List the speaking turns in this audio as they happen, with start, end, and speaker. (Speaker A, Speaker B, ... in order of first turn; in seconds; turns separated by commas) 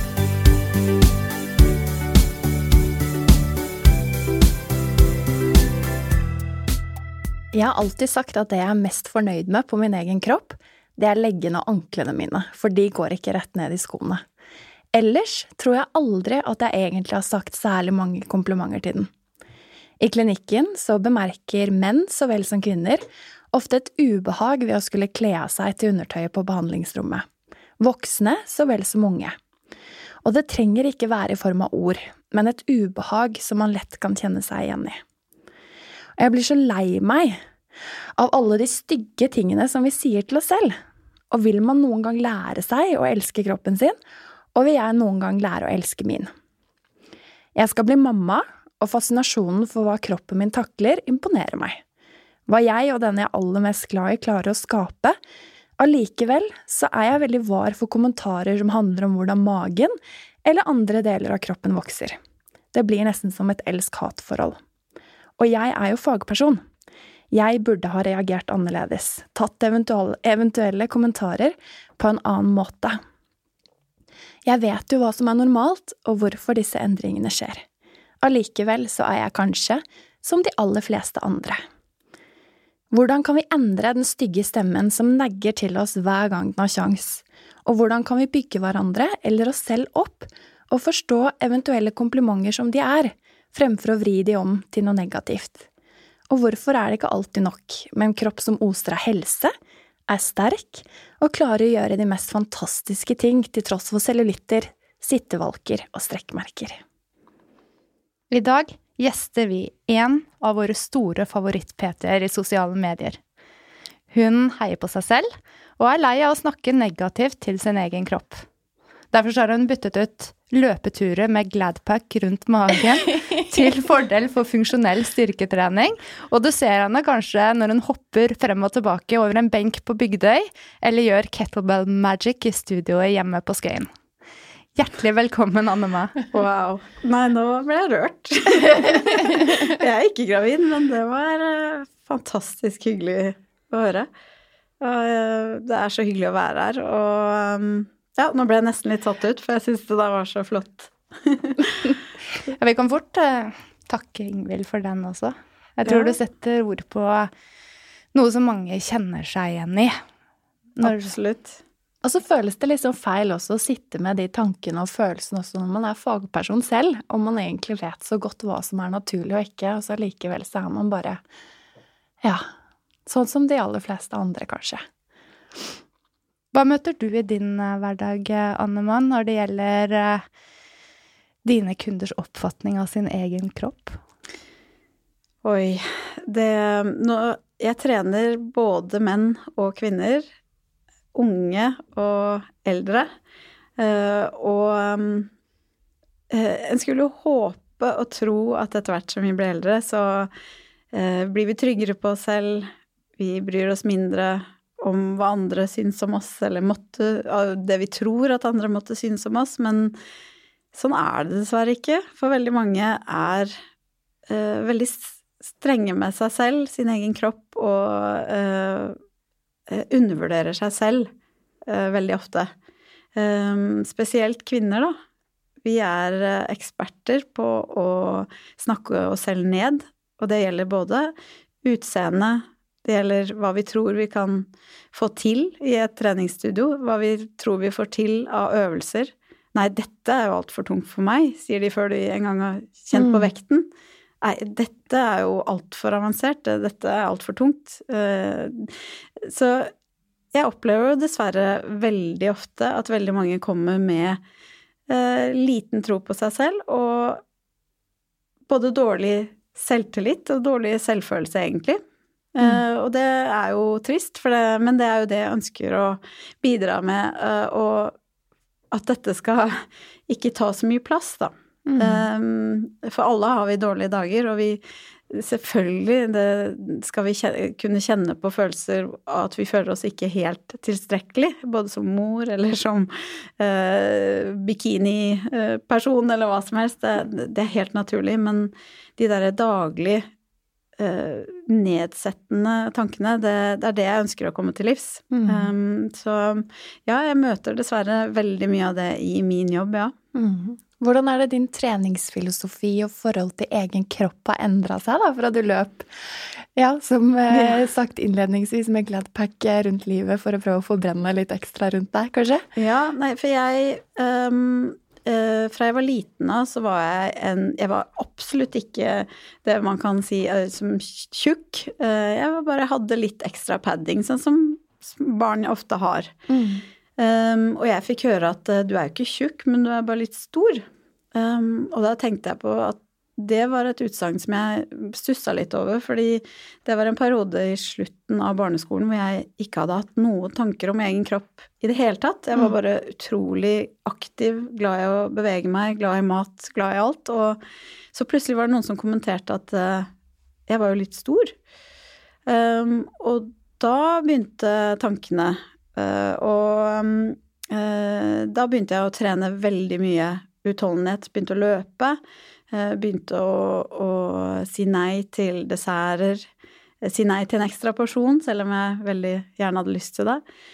Speaker A: 7.5-14.2, Speaker A: 14.9-19.1, Speaker A: 20.0-27.2, Speaker A: 27.8-29.4, Speaker A: 30.2-35.0, Speaker A: 36.2-37.4, Speaker A: 38.1-40.8, Speaker A: 41.3-44.0, Speaker A: 44.5-46.3, Speaker A: 47.5-51.8, Speaker A: 52.5-55.2, Speaker A: 55.8-62.2, Speaker A: 62.7-64.6, Speaker A: 65.4-66.6, Speaker A: 67.3-73.0, Speaker A: 74.5-77.6, Speaker A: 78.2-81.6, Speaker A: 82.9-95.7, Speaker A: 96.3-99.5, Speaker A: 100.1-106.8, Speaker B: 108.3-113.2, Speaker B: 114.1-118.4, Speaker B: 119.1-133.9, Speaker B: 134.7-136.2, Speaker C: 136.3-144.1, Speaker C: 144.8-151.9, Speaker B: 152.6-157.3, Speaker C: 155.9-156.2, Speaker B: 158.1-160.0, Speaker B: 160.8-161.1, Speaker C: 160.8-161.6, Speaker A: 162.0-171.2, Speaker A: 173.1-174.8, Speaker B: 176.5-180.2, Speaker B: 181.4-184.0, Speaker C: 185.4-190.2, Speaker C: 191.1-193.1, Speaker C: 193.8-195.3, Speaker C: 196.3-200.3, Speaker C: 200.9-209.9, Speaker C: 210.7-213.5, Speaker C: 214.3-219.0, Speaker C: 219.7-221.1, Speaker C: 221.7-222.5, Speaker C: 223.1-224.9, Speaker C: 225.6-243.7, Speaker A: 242.9-243.3, Speaker C: 244.2-249.7, Speaker C: 250.3-254.2, Speaker C: 254.9-257.2, Speaker C: 258.5-261.8, Speaker C: 262.3-267.9, Speaker C: 268.7-290.1, Speaker A: 271.7-272.1, Speaker C: 290.8-299.9, Speaker A: 295.1-295.5, Speaker A: 300.1-312.4, Speaker C: 307.3-307.6, Speaker C: 312.6-326.1, Speaker A: 326.3-326.6, Speaker C: 327.0-347.4, Speaker C: 347.9-349.9, Speaker C: 350.5-351.3, Speaker C: 352.3-362.0, Speaker C: 362.5-366.2, Speaker C: 366.8-370.2